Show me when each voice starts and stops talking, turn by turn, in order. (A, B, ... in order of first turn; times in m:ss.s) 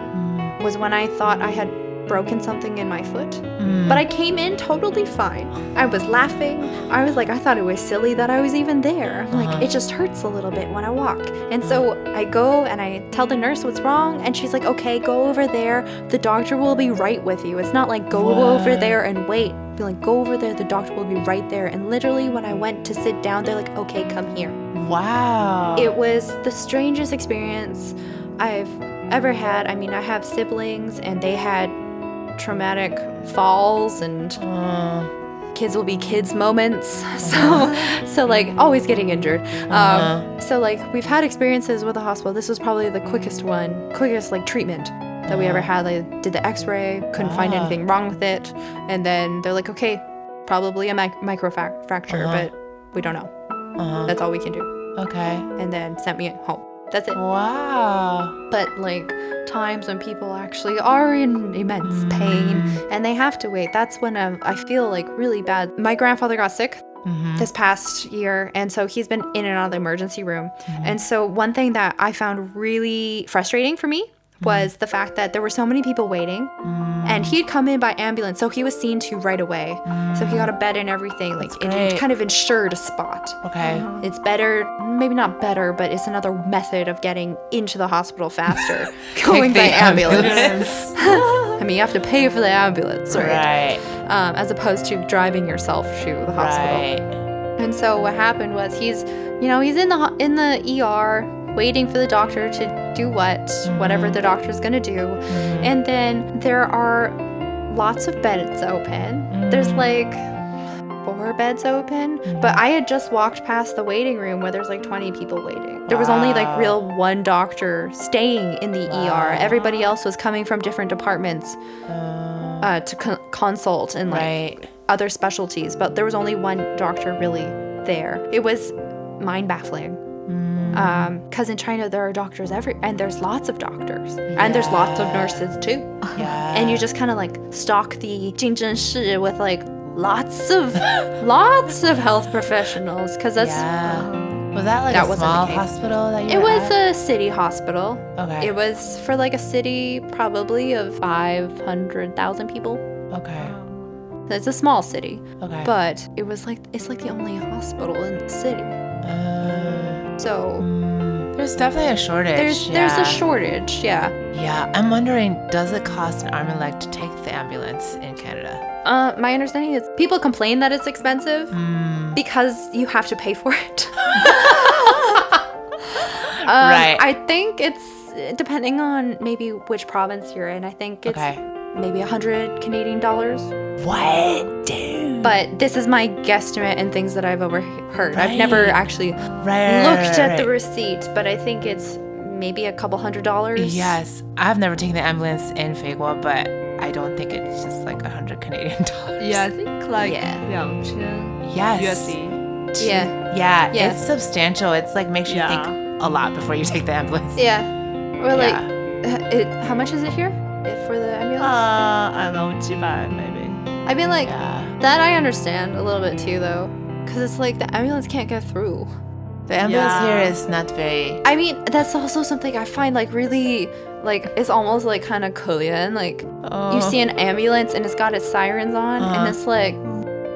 0:00.1-0:00.6 A
0:00.6-0:24.6 B
0:03.6-0:04.1 A
0:09.3-0:09.7 A
0:18.1-0:19.0 A
0:24.7-0:26.0 A
0:25.8-0:31.8 B
0:32.4-0:34.4 B
0:34.4-0:35.1 A
0:35.5-0:53.3 B
0:37.2-0:37.9 A
0:39.7-0:40.3 A
0:45.3-0:45.7 A
0:47.2-0:47.8 A
0:52.1-0:52.5 A
0:53.8-0:54.2 A
0:54.1-0:54.7 B
0:55.0-0:55.5 A
0:55.6-0:57.2 B
0:57.2-0:58.4 A
0:58.5-1:06.8 B
1:01.8-1:02.8 A
1:07.0-1:07.5 A
1:07.4-1:16.5 B
1:10.7-1:11.0 A
1:14.4-1:14.7 A
1:16.6-1:17.4 A
1:17.0-1:23.4 B
1:19.9-1:20.5 A
1:21.4-1:22.0 A
1:23.4-1:23.9 A
1:23.6-1:24.0 C
1:24.0-1:36.9 B
1:28.6-1:30.9 A
1:30.1-1:31.6 C
1:33.1-1:33.8 A
1:36.3-1:37.1 A
1:37.6-1:47.2 B
1:43.6-1:44.2 A
1:45.3-1:45.8 A
1:47.7-1:50.3 B
1:49.3-1:49.9 A
1:51.0-2:01.6 B
1:52.2-1:52.6 A
1:55.9-1:56.8 A
1:58.9-1:59.7 A
2:01.9-2:02.7 A
2:02.6-2:10.0 B
2:04.1-2:04.7 A
2:10.3-2:11.1 A
2:10.7-2:16.0 B
2:14.3-2:15.5 A
2:16.2-2:16.9 A
2:16.5-2:23.7 B
2:23.4-2:26.8 A
2:23.9-2:24.4 C
2:24.9-2:25.7 B
2:26.3-2:32.8 B
2:28.2-2:28.5 A
2:33.1-2:33.6 A
2:33.4-2:33.9 C
2:34.3-2:38.8 B
2:35.4-2:35.7 A
2:39.0-2:40.0 A
2:40.2-2:40.7 B
2:40.6-2:43.2 A
2:42.4-2:44.2 B
2:44.3-2:48.6 A
2:48.8-2:51.6 B
2:51.5-2:52.2 A
2:52.2-2:55.3 B
2:54.1-2:55.4 A
2:56.2-3:03.6 B
2:56.4-2:57.1 A
3:01.0-3:01.4 A
3:03.8-3:05.4 A
3:05.2-3:14.0 B
3:08.1-3:08.8 A
3:09.2-3:09.6 C
3:09.4-3:10.5 A
3:13.6-3:19.5 A
3:19.2-3:22.4 C
3:20.0-3:20.4 B
3:21.4-3:22.2 A
3:22.7-3:27.4 A
3:22.8-3:23.2 B
3:23.7-3:24.0 B
3:25.3-3:25.8 C
3:27.4-3:31.7 B
3:28.3-3:28.7 A
3:31.4-3:33.6 C
3:33.9-3:38.9 B
3:34.2-3:34.7 A
3:39.5-3:41.2 A
3:39.6-3:40.4 C
3:41.2-3:49.8 B
3:46.4-3:47.0 A
3:49.0-3:49.4 A